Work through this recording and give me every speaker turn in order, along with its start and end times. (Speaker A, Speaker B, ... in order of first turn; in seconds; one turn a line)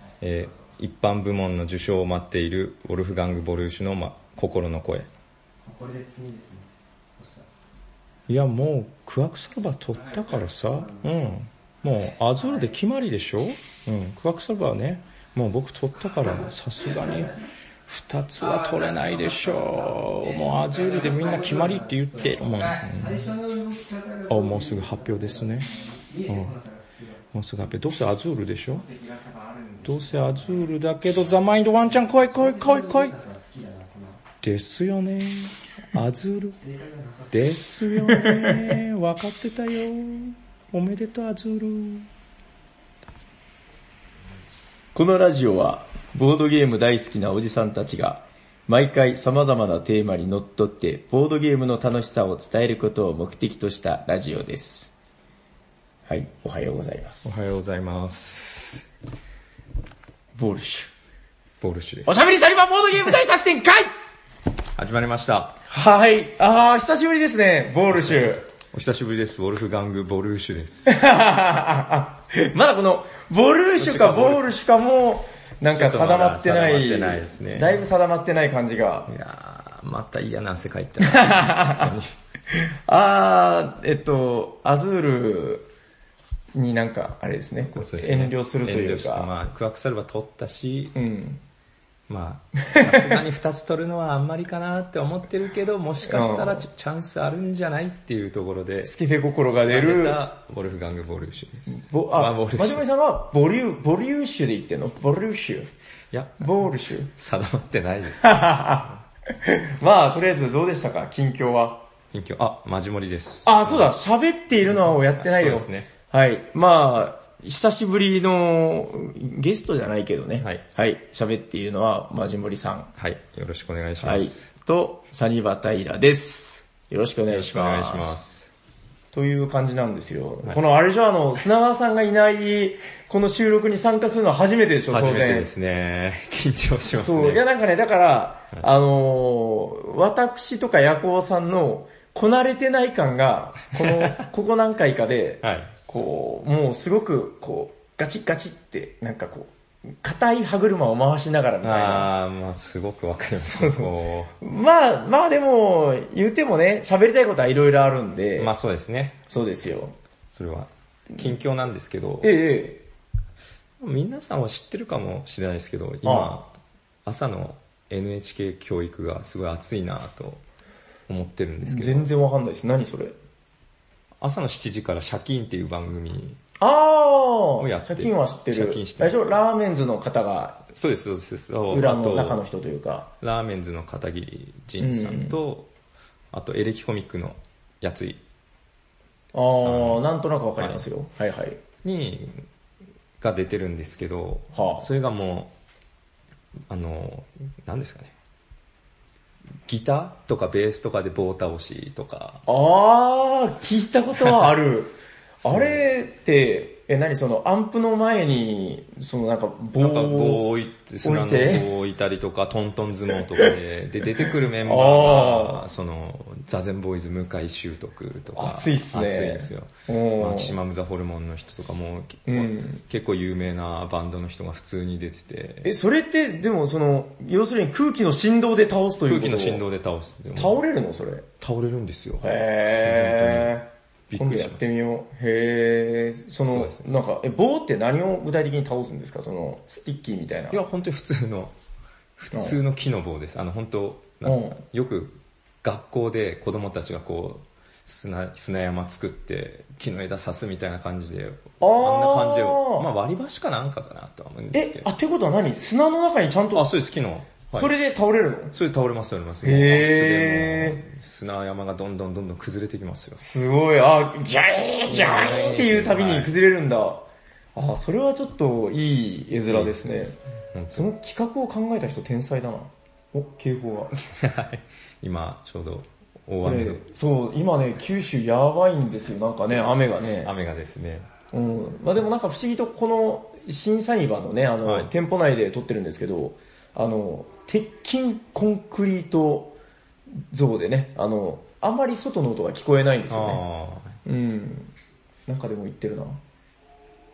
Speaker A: 0.2-5.1
Speaker B: 5.6-7.5
Speaker A: 8.3-17.4
Speaker B: 10.1-11.2
Speaker B: 12.3-12.8
Speaker B: 16.1-17.4
Speaker A: 17.9-23.3
Speaker B: 18.4-27.3
Speaker A: 24.3-25.7
Speaker A: 26.3-26.5
Speaker A: 27.3-28.9
Speaker B: 28.7-34.2
Speaker A: 29.8-33.1
Speaker A: 34.4-36.6
Speaker B: 36.6-37.8
Speaker A: 37.3-42.1
Speaker C: 38.1-38.5
Speaker C: 45.0-54.9
Speaker C: 56.1-57.3
Speaker A: 57.2-58.9
Speaker C: 60.4-60.9
Speaker A: 61.6-62.1
Speaker C: 62.1-63.9
Speaker A: 64.8-65.6
Speaker C: 65.7-68.4
Speaker A: 67.9-70.9
Speaker C: 70.9-79.1
Speaker A: 73.8-74.5
Speaker A: 75.8-77.8
Speaker A: 79.1-82.1
Speaker C: 81.0-81.9
Speaker C: 82.5-85.7
Speaker C: 86.5-89.3
Speaker A: 87.7-91.0
Speaker C: 91.0-91.4
Speaker A: 92.1-98.9
Speaker C: 92.7-93.1
Speaker C: 96.1-96.7
Speaker C: 98.8-100.2
Speaker A: 99.7-102.8
Speaker C: 101.7-105.7
Speaker A: 106.1-109.0
Speaker C: 106.4-107.1
Speaker C: 108.2-108.9
Speaker C: 109.4-111.8
Speaker A: 112.1-113.9
Speaker C: 113.5-122.9
Speaker A: 114.6-115.9
Speaker A: 123.0-124.5
Speaker C: 124.0-128.2
Speaker A: 127.3-128.5
Speaker C: 129.1-135.5
Speaker A: 134.9-137.4
Speaker C: 136.9-149.5
Speaker A: 143.8-144.2
Speaker A: 145.4-145.7
Speaker C: 150.0-152.1
Speaker A: 151.6-154.3
Speaker C: 153.3-158.5
Speaker A: 158.4-159.2
Speaker C: 159.3-159.9
Speaker A: 160.3-162.3
Speaker C: 162.2-162.8
Speaker A: 163.8-166.5
Speaker C: 166.0-166.4
Speaker A: 167.1-170.4
Speaker A: 171.1-172.1
Speaker C: 171.6-173.2
Speaker A: 174.2-176.4
Speaker C: 176.6-180.6
Speaker A: 177.6-179.2
Speaker A: 180.7-182.5
Speaker C: 181.7-183.1
Speaker A: 183.2-185.7
Speaker C: 184.8-185.4
Speaker A: 186.3-188.2
Speaker C: 189.3-191.6
Speaker A: 189.5-190.0
Speaker A: 191.8-192.5
Speaker A: 193.2-195.5
Speaker C: 194.5-194.9
Speaker A: 196.7-198.1
Speaker A: 199.7-202.4
Speaker C: 202.5-210.4
Speaker A: 204.2-204.5
Speaker A: 205.4-205.8
Speaker A: 209.8-225.7
Speaker C: 211.0-211.7
Speaker C: 214.2-215.6
Speaker C: 218.3-220.6
Speaker C: 222.3-222.8
Speaker C: 225.6-229.6
Speaker A: 229.1-230.6
Speaker C: 230.3-231.3
Speaker A: 231.4-232.3
Speaker C: 232.2-240.6
Speaker A: 232.8-233.6
Speaker A: 234.1-234.7
Speaker A: 236.5-236.8
Speaker A: 240.5-241.5
Speaker A: 242.2-254.9
Speaker C: 242.3-242.6
Speaker C: 244.2-244.6
Speaker C: 251.6-252.9
Speaker C: 254.5-256.7
Speaker A: 256.5-257.7
Speaker C: 257.5-258.6
Speaker A: 258.5-263.2
Speaker C: 259.4-260.8
Speaker C: 263.2-267.0
Speaker A: 264.9-266.4
Speaker C: 267.6-270.2
Speaker A: 269.5-269.8
Speaker A: 270.5-270.9
Speaker C: 270.7-274.0
Speaker A: 274.1-276.8
Speaker C: 276.4-280.3
Speaker A: 280.2-281.1
Speaker C: 281.3-289.6
Speaker A: 284.6-284.9
Speaker C: 290.3-293.4
Speaker A: 293.1-294.0
Speaker C: 294.0-294.7
Speaker C: 295.3-296.2